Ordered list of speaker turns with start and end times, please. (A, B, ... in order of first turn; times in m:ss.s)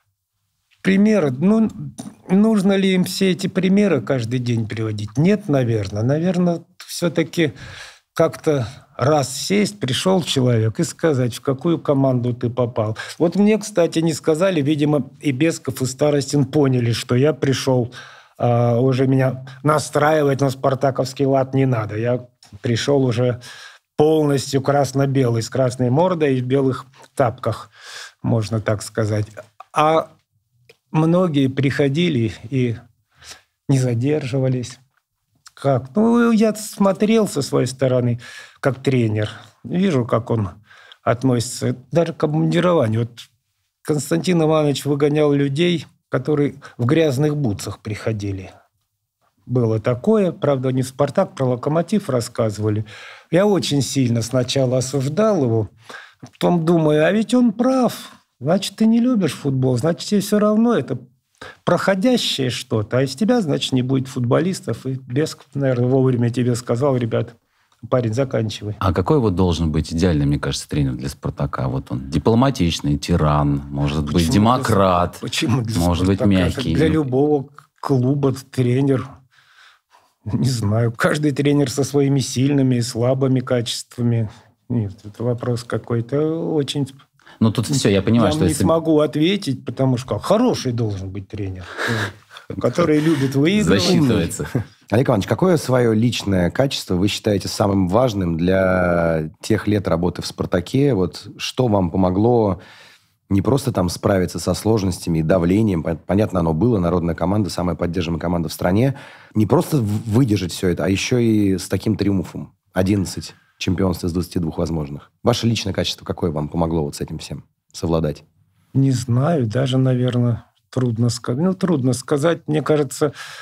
0:00.8-0:07.5 A
0:08.1-0:23.4 A
0:24.0-0:27.7 A
0:28.2-0:30.1 A
0:30.9-0:32.8 A
0:33.7-0:34.8 A
0:35.6-0:43.2 A
0:43.8-0:48.5 A
0:49.5-0:55.7 A
0:56.4-1:01.0 A
1:01.6-1:08.8 A
1:08.8-1:15.2 B
1:14.1-1:19.0 A
1:15.7-1:17.0 B
1:20.3-1:27.0 A
1:27.4-1:28.7 B
1:27.7-1:34.3 A
1:33.5-1:34.5 B
1:33.6-1:34.4 C
1:34.9-1:42.6 C
1:43.3-1:58.2 C
1:58.7-2:03.1 A